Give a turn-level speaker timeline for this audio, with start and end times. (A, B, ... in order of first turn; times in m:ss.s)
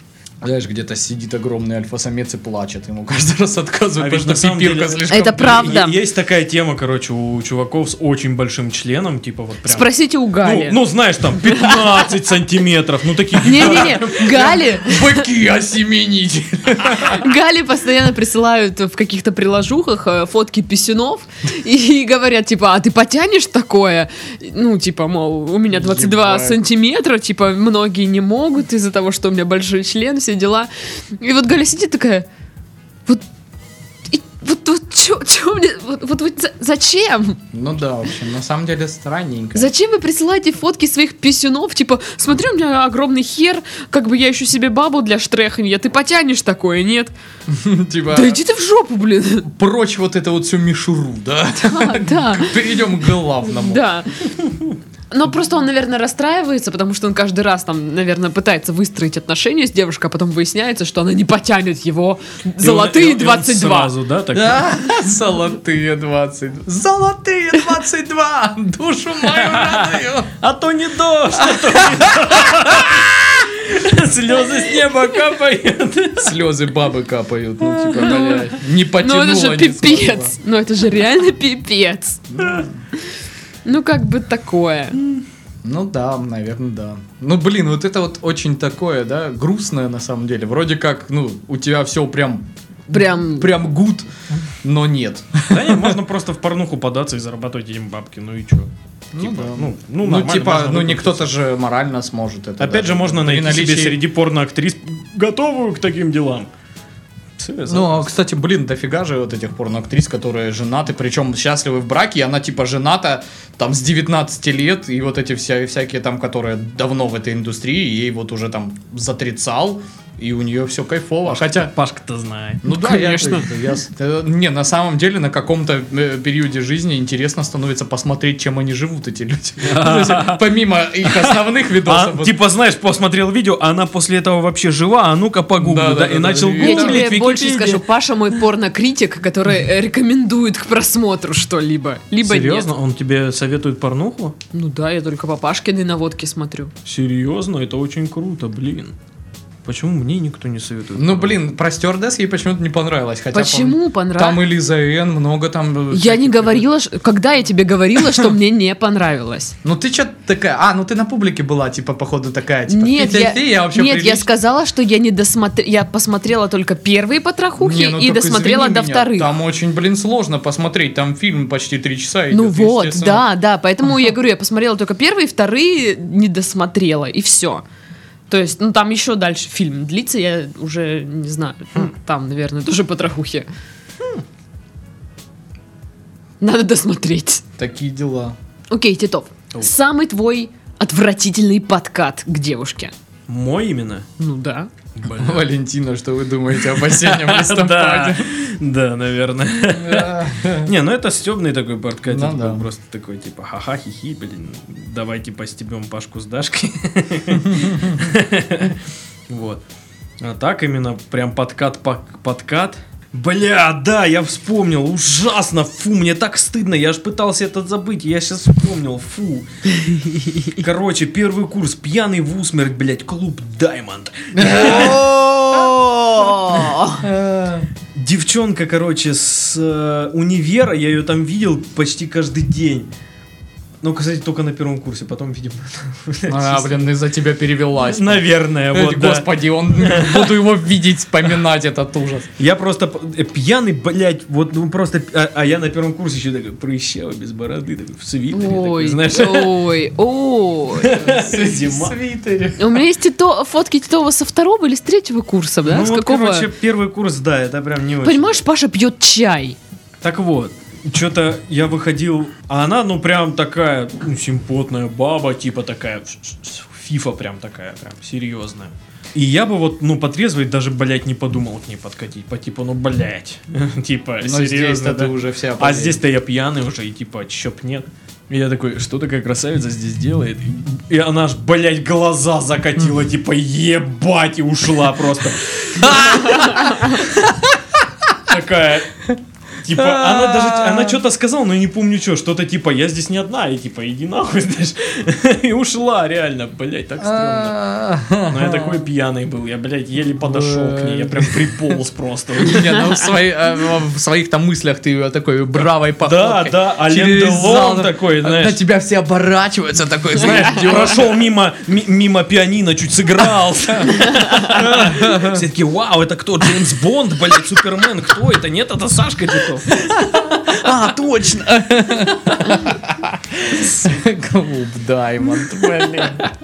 0:00.4-0:05.8 A
0:04.0-0:14.4 B
0:05.1-0:06.0 C
0:09.6-0:10.8 C
0:11.5-0:12.0 C
0:13.4-0:15.3 C
0:13.6-0:17.3 A
0:17.0-0:32.2 C
0:25.7-0:26.6 A
0:34.1-0:37.4 C
0:37.5-0:39.7 A
0:39.5-0:47.1 C
0:47.5-0:48.4 A
0:48.1-0:49.5 C
0:49.5-0:53.8 A
0:51.6-0:52.5 C
0:53.4-0:54.3 C
0:55.1-1:03.9 C
1:02.6-1:04.6 B
1:04.3-1:10.3 A
1:09.3-1:16.3 B
1:11.4-1:13.1 A
1:16.2-1:20.3 A
1:17.6-1:18.4 B
1:18.0-1:18.4 C
1:19.0-1:22.3 C
1:22.3-1:22.8 A
1:23.6-1:25.0 C
1:25.6-1:34.1 A
1:32.9-1:33.5 C
1:34.6-1:36.0 A
1:35.5-1:41.3 B
1:39.1-1:44.0 A
1:42.6-1:46.5 B
1:47.4-1:48.1 B
1:47.7-2:01.7 A
2:01.3-2:03.3 B
2:02.6-2:12.3 A
2:02.7-2:03.4 C
2:09.6-2:10.4 B
2:11.0-2:17.8 B
2:15.6-2:17.1 A
2:16.6-2:22.7 C
2:22.2-2:24.3 B
2:24.5-2:26.7 C
2:26.8-2:28.9 B
2:29.6-2:31.4 B
2:30.9-2:36.7 A
2:33.3-2:34.4 C
2:35.9-2:39.5 C
2:39.6-2:44.2 A
2:42.7-2:49.3 C
2:47.6-2:53.2 A
2:52.3-2:57.6 C
2:58.3-3:03.5 C
3:06.4-3:07.4 C
3:07.6-3:08.4 A
3:08.7-3:12.9 C
3:13.3-3:14.0 B
3:14.2-3:14.7 C
3:15.0-3:15.4 B
3:15.0-3:18.3 A
3:16.6-3:28.8 B
3:19.7-3:20.7 A
3:22.1-3:22.6 A
3:27.5-3:27.9 A
3:29.3-3:29.6 B
3:30.2-3:39.4 B
3:40.0-3:45.0 B
3:44.3-3:46.0 A
3:44.9-3:47.0 C
3:47.0-3:47.7 A
3:48.0-3:52.9 B
3:53.8-3:56.9 B
3:56.3-4:02.3 A
3:57.8-4:00.4 B
4:02.4-4:09.6 B
4:08.3-4:11.0 C
4:10.8-4:12.0 B
4:11.0-4:12.8 A
4:12.6-4:16.5 C
4:15.6-4:18.4 B
4:18.0-4:19.6 C
4:20.0-4:47.4 B
4:34.2-4:36.0 A
4:45.8-4:46.9 A
4:48.2-4:49.1 B
4:49.6-4:57.6 B
4:49.7-4:51.0 A
4:57.0-4:58.9 A
4:58.3-5:02.9 B
5:00.2-5:01.8 A
5:02.4-5:11.0 A
5:05.6-5:08.6 B
5:10.2-5:20.8 B
5:14.6-5:15.4 A
5:19.9-5:26.2 A